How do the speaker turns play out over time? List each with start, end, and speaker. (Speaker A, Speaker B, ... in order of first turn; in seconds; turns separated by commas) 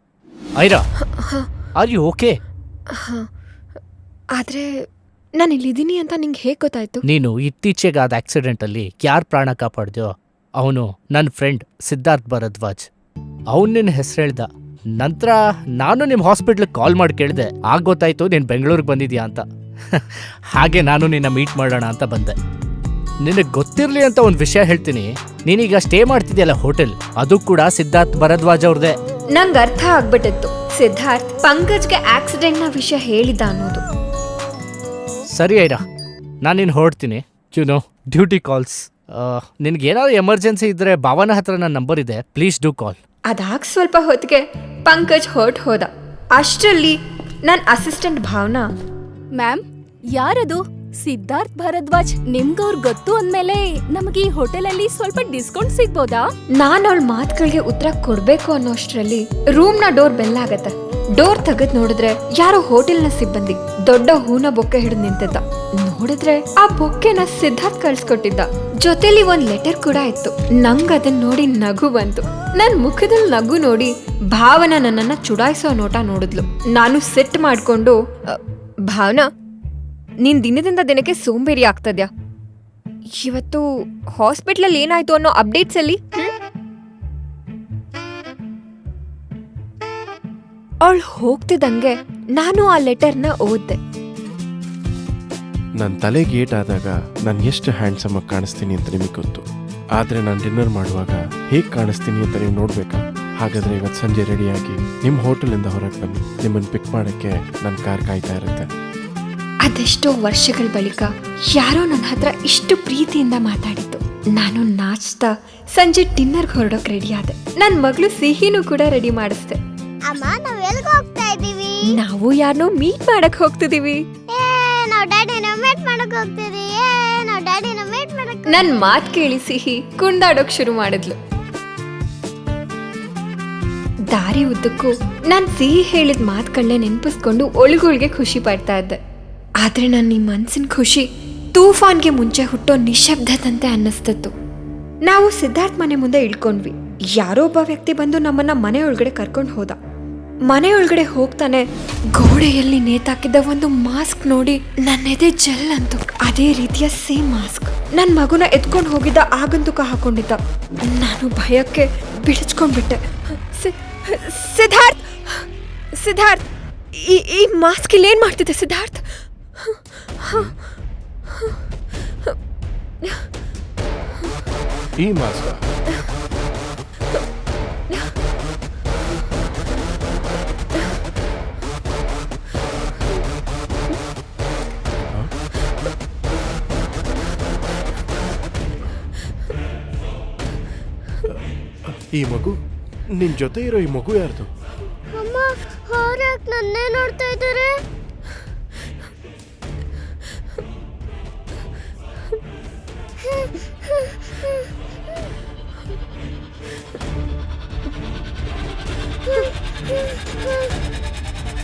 Speaker A: 1.2-1.5, Speaker B: 1.8-2.4, Speaker A: 2.9-3.3, Speaker A: 4.3-4.9, Speaker A: 5.4-7.0, Speaker B: 7.0-12.9, Speaker B: 13.5-14.5, Speaker B: 15.0-20.0, Speaker B: 20.5-22.4, Speaker B: 23.2-28.9, Speaker A: 29.3-33.8, Speaker B: 35.3-35.8, Speaker B: 36.4-43.0, Speaker A: 43.3-48.7, Speaker C: 49.4-56.3, Speaker A: 56.6-78.4, Speaker A: 78.9-79.2, Speaker A: 80.2-82.1, Speaker A: 83.2-83.6, Speaker A: 84.2-86.3, Speaker A: 90.8-93.8, Speaker D: 95.8-99.4, Speaker D: 100.0-108.7, Speaker A: 109.7-119.6, Speaker E: 120.1-122.0, Speaker A: 121.9-124.0, Speaker E: 124.3-129.0, Speaker A: 128.5-131.2, Speaker A: 134.1-139.0, Speaker A: 139.6-144.3, Speaker A: 145.1-149.8, Speaker A: 150.5-166.4, Speaker A: 166.9-169.1, Speaker A: 169.6-170.4, Speaker D: 175.0-175.7, Speaker D: 191.9-192.6, Speaker D: 193.1-194.5, Speaker E: 195.1-197.8, Speaker E: 203.3-204.5